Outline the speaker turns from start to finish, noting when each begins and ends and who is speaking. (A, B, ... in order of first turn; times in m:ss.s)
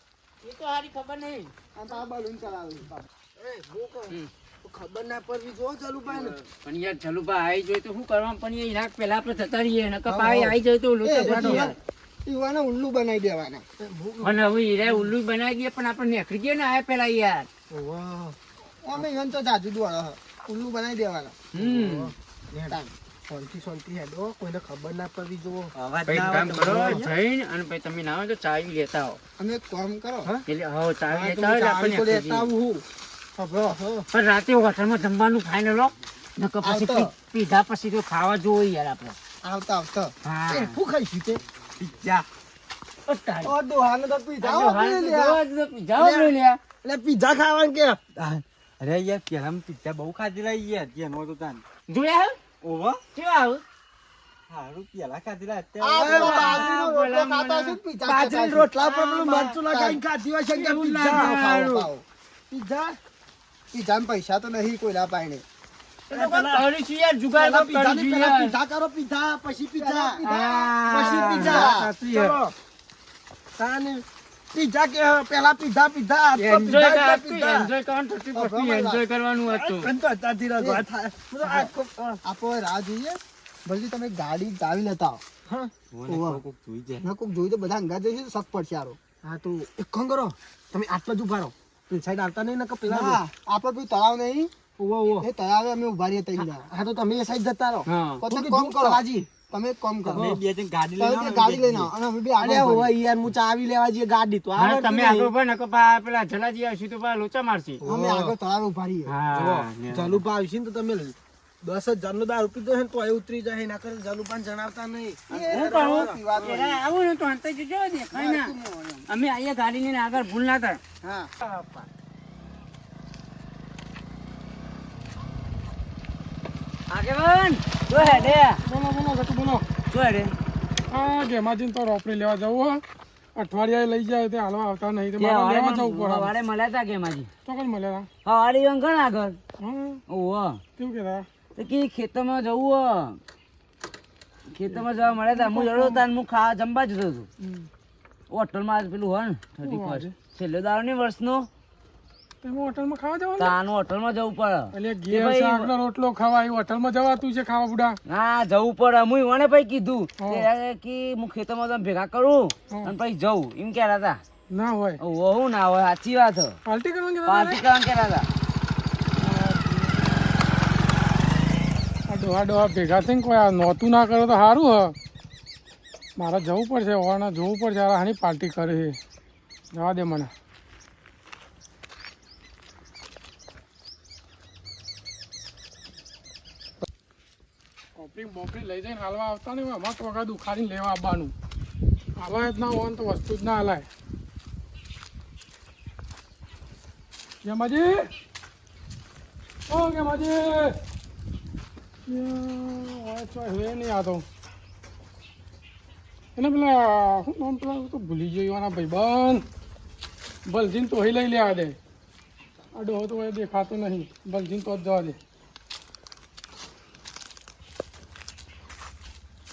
0:00.4-0:01.5 A
0:01.7-0:02.9 B
0:03.3-0:06.3 C
0:06.1-0:11.7 A
0:10.1-0:13.6 B
0:11.2-0:11.6 C
0:13.8-0:15.1 C
0:14.2-0:17.5 A
0:17.7-0:18.4 C
0:18.8-0:21.4 B
0:21.5-0:22.1 A
0:21.6-0:22.1 C
0:23.3-0:25.7 C
0:25.7-0:27.1 D
0:26.1-0:29.2 A
0:26.6-0:27.0 C
0:29.4-0:30.3 B
0:30.5-0:32.5 A
0:31.1-0:32.8 C
0:33.4-0:33.8 B
0:33.6-0:34.0 C
0:34.1-0:39.2 A
0:36.6-0:37.1 B
0:39.4-0:40.1 B
0:40.2-0:40.8 A
0:40.5-0:41.4 C
0:41.8-0:42.2 D
0:43.1-0:43.5 A
0:43.4-0:45.4 B
0:44.4-0:46.6 A
0:46.0-0:48.0 C
0:48.2-0:51.6 D
0:51.9-0:52.4 A
0:52.6-0:53.0 D
0:53.1-0:53.6 A
0:54.5-0:56.2 D
0:55.8-0:58.7 B
0:56.0-0:56.7 C
0:56.0-0:57.8 A
0:58.0-1:01.3 C
0:58.7-0:59.6 D
0:59.5-1:00.0 B
1:00.5-1:01.9 A
1:01.0-1:02.0 B
1:02.5-1:03.0 C
1:03.7-1:05.4 B
1:06.1-1:08.5 A
1:06.1-1:06.6 C
1:07.4-1:10.2 C
1:09.8-1:11.9 B
1:10.2-1:12.4 A
1:10.9-1:12.5 C
1:13.6-1:14.0 C
1:14.5-1:17.7 C
1:16.4-1:19.9 A
1:18.3-1:19.0 B
1:19.5-1:22.2 C
1:20.6-1:20.8 B
1:21.4-1:25.2 B
1:25.5-1:25.7 C
1:25.9-1:27.1 D
1:26.1-1:26.4 B
1:27.0-1:29.0 B
1:29.2-1:33.2 C
1:32.8-1:34.5 B
1:34.8-1:35.3 C
1:35.2-1:36.7 B
1:36.4-1:39.3 C
1:37.8-1:38.2 A
1:38.2-1:40.3 B
1:40.1-1:40.4 C
1:40.1-1:41.9 D
1:41.0-1:42.9 B
1:42.4-1:45.3 C
1:44.6-1:47.8 A
1:47.8-1:48.3 C
1:47.8-1:49.1 B
1:49.1-1:50.2 A
1:49.3-1:56.6 C
1:55.3-1:56.8 B
1:55.5-1:58.5 A
1:58.1-1:59.0 B
1:59.1-2:00.8 A
2:01.0-2:01.3 B
2:01.4-2:01.8 A
2:06.9-2:08.6 E
2:07.9-2:09.6 F
2:09.9-2:10.3 E
2:10.9-2:12.8 F
2:13.4-2:16.3 F
2:15.2-2:17.3 E
2:17.4-2:18.1 F
2:18.2-2:19.4 E
2:19.6-2:20.0 F
2:20.1-2:20.6 E
2:20.8-2:21.2 F
2:21.6-2:23.2 E
2:24.5-2:27.3 E
2:24.7-2:26.0 F
2:27.4-2:27.7 F
2:28.3-2:31.5 E
2:29.6-2:30.1 F
2:32.4-2:33.6 F
2:33.4-2:35.7 E
2:34.7-2:38.0 F
2:38.0-2:44.2 E
2:40.2-2:40.4 F
2:44.5-2:45.0 F
2:45.0-2:46.6 E
2:46.6-2:47.6 F
2:47.3-2:48.3 E
2:49.2-2:50.1 F
2:52.1-2:54.9 F
2:56.2-2:59.0 F
2:59.7-3:00.3 F
3:08.0-3:11.3 F
3:12.2-3:13.8 F
3:17.4-3:18.1 F
3:19.7-3:20.8 F
3:22.1-3:24.2 F
3:26.4-3:29.4 F
3:30.5-3:31.8 F
3:32.7-3:35.2 F